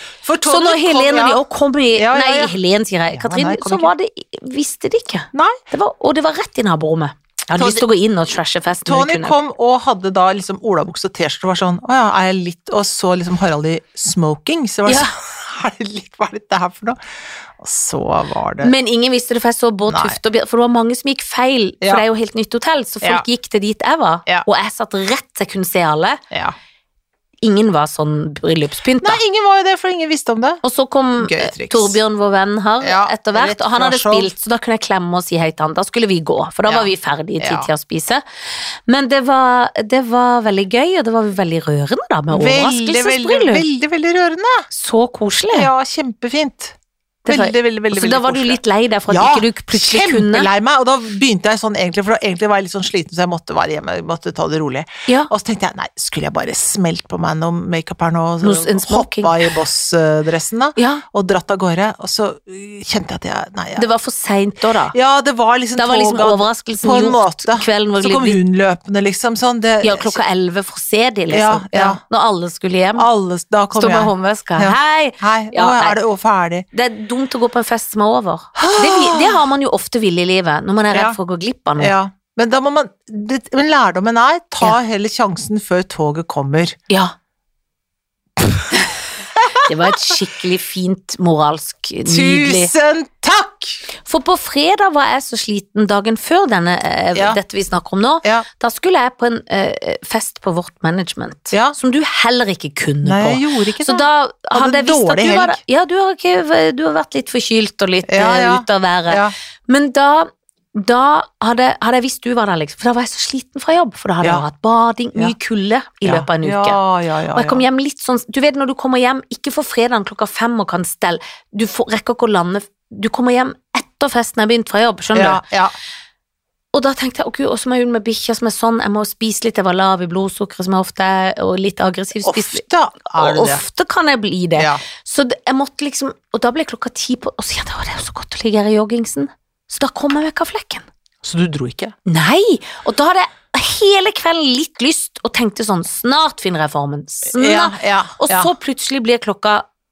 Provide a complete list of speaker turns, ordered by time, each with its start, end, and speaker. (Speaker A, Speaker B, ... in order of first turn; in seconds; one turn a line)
Speaker A: 0.2-1.4
Speaker B: 0.5-9.4
Speaker A: 1.9-2.6
Speaker A: 3.1-3.9
Speaker A: 5.3-5.6
Speaker A: 7.6-7.8
Speaker A: 8.9-17.0
Speaker B: 14.9-15.1
Speaker A: 17.6-18.7
Speaker B: 18.6-26.2
Speaker A: 19.9-20.2
Speaker A: 26.3-26.6
Speaker B: 27.4-29.2
Speaker A: 29.0-30.6
Speaker B: 30.6-38.2
Speaker A: 31.2-32.0
Speaker A: 32.8-34.3
Speaker A: 36.7-37.7
Speaker B: 38.9-43.6
Speaker A: 42.3-44.7
Speaker B: 44.7-45.7
Speaker A: 45.5-63.9
Speaker B: 47.2-50.5
Speaker B: 58.4-59.4
Speaker B: 60.8-61.0
Speaker B: 63.8-65.0
Speaker A: 64.9-70.2
Speaker B: 65.8-68.4
Speaker B: 69.8-73.1
Speaker A: 71.3-72.0
Speaker A: 73.0-76.7
Speaker B: 73.7-76.0
Speaker B: 76.7-81.9
Speaker A: 78.6-79.5
Speaker A: 80.9-81.2
Speaker A: 81.8-86.8
Speaker A: 88.4-88.7
Speaker A: 89.4-89.6
Speaker B: 89.6-92.7
Speaker A: 92.1-93.9
Speaker B: 94.0-116.8
Speaker A: 101.5-101.8
Speaker A: 103.0-105.6
Speaker A: 108.1-109.3
Speaker A: 116.0-117.7
Speaker B: 117.3-125.4
Speaker A: 125.1-125.7
Speaker B: 126.7-132.7
Speaker A: 132.2-133.6
Speaker B: 133.2-140.8
Speaker A: 134.6-134.8
Speaker A: 141.2-141.9
Speaker B: 142.1-149.7
Speaker A: 147.3-148.5